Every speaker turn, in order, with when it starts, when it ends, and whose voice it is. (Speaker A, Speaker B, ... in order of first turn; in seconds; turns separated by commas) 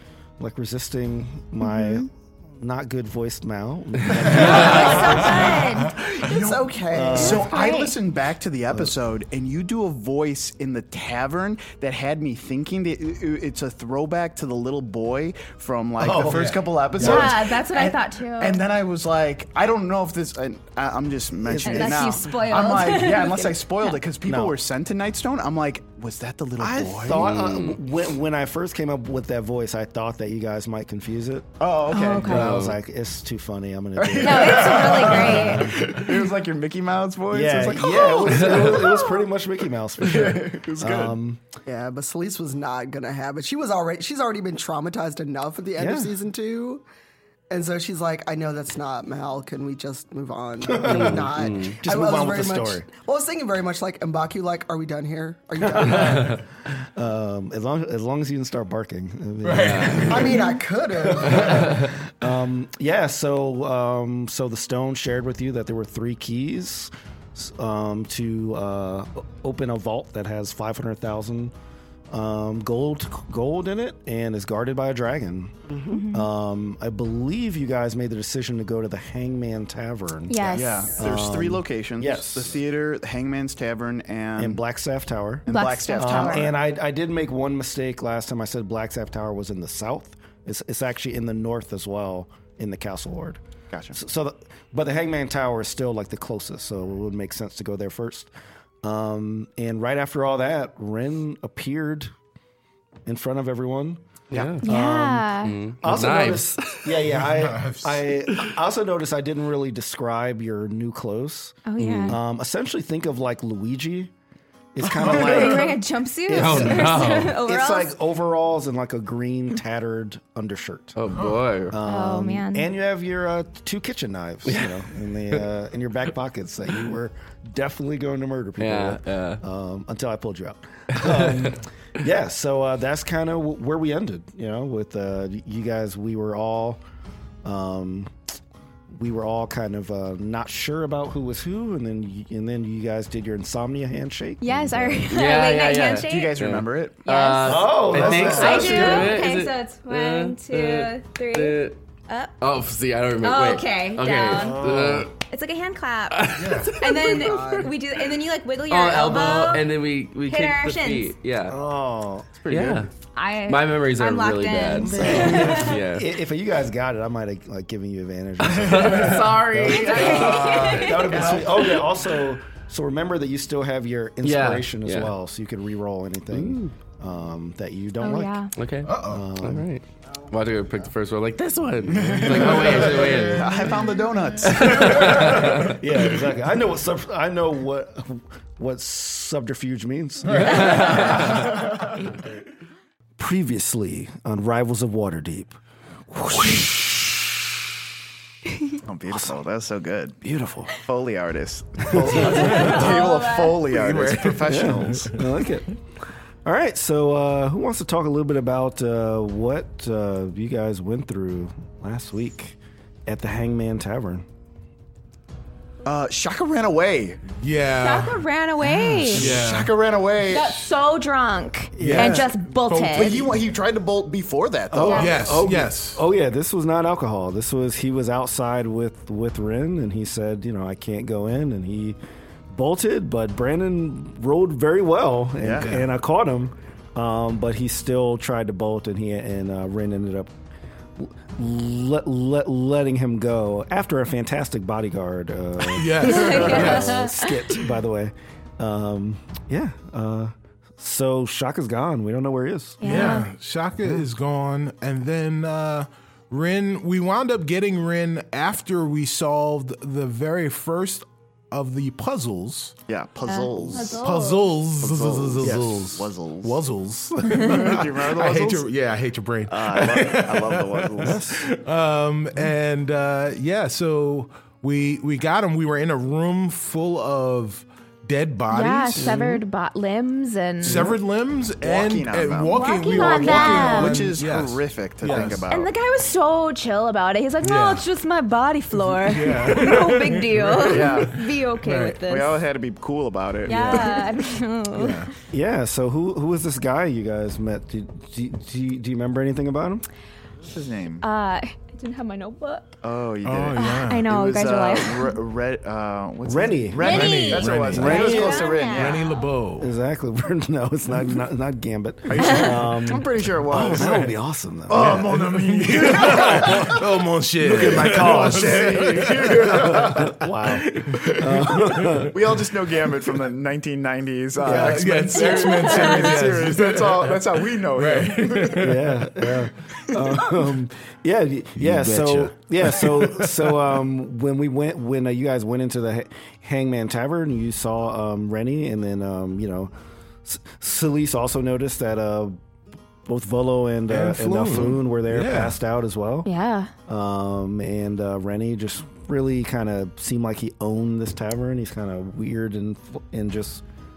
Speaker A: 0.4-5.6, Speaker B: 1.6-2.1, Speaker C: 4.2-4.6, Speaker B: 4.3-5.9, Speaker D: 4.3-27.3, Speaker E: 4.7-5.2, Speaker C: 5.4-5.7, Speaker E: 5.8-7.5, Speaker A: 6.9-7.5, Speaker B: 7.1-8.0, Speaker A: 16.0-17.4, Speaker C: 16.0-16.6, Speaker B: 17.0-18.6, Speaker A: 21.4-22.2, Speaker B: 21.6-24.0, Speaker A: 24.2-24.6, Speaker A: 26.6-31.6, Speaker F: 27.1-27.8, Speaker D: 31.6-32.5, Speaker B: 31.9-32.5, Speaker A: 32.1-36.0, Speaker F: 32.2-32.8, Speaker D: 34.0-39.0, Speaker B: 34.2-35.8, Speaker A: 37.3-41.4, Speaker F: 38.3-38.7, Speaker D: 40.0-41.2, Speaker E: 41.6-46.8, Speaker A: 45.8-46.1, Speaker E: 47.5-56.4, Speaker A: 50.6-52.9, Speaker F: 50.8-51.8, Speaker A: 55.6-60.3, Speaker C: 59.4-60.5, Speaker F: 59.5-60.3, Speaker E: 60.0-61.6, Speaker C: 61.1-61.7, Speaker F: 61.2-61.9, Speaker A: 61.3-71.5, Speaker A: 72.1-82.6, Speaker E: 75.7-76.0, Speaker B: 75.9-76.3, Speaker B: 80.3-81.0, Speaker D: 80.5-84.6, Speaker A: 84.4-93.4, Speaker D: 85.5-86.5, Speaker B: 85.5-86.5, Speaker D: 93.7-94.0, Speaker A: 93.9-98.3, Speaker A: 98.8-102.1, Speaker A: 103.0-114.1, Speaker F: 104.3-104.6, Speaker B: 104.6-105.6, Speaker F: 105.4-106.9, Speaker C: 107.0-108.1, Speaker B: 111.7-112.2, Speaker F: 111.8-112.2, Speaker A: 114.7-115.8, Speaker B: 115.0-118.0, Speaker A: 116.3-136.8, Speaker F: 116.3-117.4, Speaker C: 116.5-116.8, Speaker F: 121.0-121.8, Speaker C: 121.1-121.4, Speaker B: 121.8-122.7, Speaker F: 124.5-125.4, Speaker F: 128.6-129.4, Speaker F: 130.9-131.3, Speaker A: 137.4-138.2, Speaker A: 138.9-145.1, Speaker B: 144.4-146.4, Speaker F: 145.1-151.8, Speaker D: 145.9-147.0, Speaker B: 147.0-152.3, Speaker A: 147.4-149.2, Speaker C: 147.9-148.8, Speaker F: 152.4-155.1, Speaker B: 153.2-161.1, Speaker A: 154.3-155.1, Speaker F: 156.1-157.5, Speaker C: 156.3-156.8, Speaker E: 157.1-157.7, Speaker F: 158.7-161.6, Speaker A: 161.5-162.8, Speaker F: 162.4-162.9, Speaker B: 163.1-165.7, Speaker F: 163.5-166.1, Speaker A: 164.7-178.4, Speaker F: 168.4-171.3, Speaker B: 168.8-171.4, Speaker C: 170.5-171.4, Speaker F: 174.2-175.1, Speaker F: 176.3-176.7, Speaker B: 178.0-178.5, Speaker F: 178.6-183.8, Speaker C: 178.8-179.2, Speaker A: 179.0-179.7, Speaker D: 181.9-185.5, Speaker C: 182.2-183.9, Speaker F: 184.4-185.8, Speaker C: 184.5-185.7, Speaker A: 185.0-191.5, Speaker C: 190.2-192.0, Speaker F: 190.3-191.4, Speaker A: 193.2-195.6, Speaker A: 196.1-197.5, Speaker D: 198.8-200.2, Speaker A: 200.2-200.8, Speaker D: 200.8-205.2, Speaker A: 201.9-203.0, Speaker B: 202.1-203.6, Speaker C: 203.7-205.2, Speaker A: 204.4-205.7, Speaker A: 206.4-214.2, Speaker D: 215.8-217.2, Speaker C: 217.3-219.8, Speaker B: 217.8-219.3, Speaker D: 219.1-220.7, Speaker B: 220.3-223.2, Speaker A: 221.8-222.3, Speaker C: 221.8-223.4, Speaker D: 222.9-225.4, Speaker A: 224.7-232.0, Speaker B: 224.8-225.1, Speaker C: 224.9-226.0, Speaker A: 232.5-240.3, Speaker D: 235.4-235.7, Speaker A: 241.0-253.2, Speaker C: 245.6-247.0, Speaker B: 246.0-247.6, Speaker B: 252.8-253.3, Speaker C: 252.8-262.8, Speaker D: 262.9-264.0, Speaker B: 263.3-264.4, Speaker C: 263.7-279.3, Speaker D: 264.8-266.6, Speaker A: 265.4-265.9, Speaker D: 267.3-268.6, Speaker D: 269.5-271.2, Speaker A: 271.0-271.5, Speaker B: 278.5-280.9, Speaker A: 279.0-279.4, Speaker C: 280.6-285.5, Speaker D: 281.6-285.7, Speaker B: 282.5-284.0, Speaker A: 285.1-285.4, Speaker B: 285.5-292.4, Speaker C: 287.4-287.9, Speaker C: 288.8-292.0, Speaker D: 290.6-291.2, Speaker D: 292.0-294.1, Speaker B: 293.4-295.1, Speaker C: 293.5-293.9, Speaker C: 294.7-295.1, Speaker A: 295.3-299.8, Speaker D: 300.4-301.1, Speaker B: 301.0-302.8, Speaker D: 302.8-309.1, Speaker C: 303.2-304.1, Speaker B: 303.6-305.2, Speaker A: 306.2-307.0, Speaker C: 306.8-309.7, Speaker B: 306.8-309.1, Speaker A: 307.7-308.6, Speaker A: 309.6-315.1, Speaker D: 312.1-313.9, Speaker C: 313.5-314.1, Speaker D: 314.7-316.8, Speaker C: 314.7-322.1, Speaker A: 315.9-316.8, Speaker A: 317.4-322.2, Speaker D: 317.6-320.1, Speaker D: 322.1-328.7, Speaker C: 324.4-330.3, Speaker A: 324.4-324.9, Speaker B: 325.1-326.2, Speaker A: 328.6-339.7, Speaker C: 331.6-333.6, Speaker A: 340.2-342.4, Speaker A: 343.0-346.3, Speaker C: 343.9-345.6, Speaker B: 346.2-346.7, Speaker A: 346.9-353.6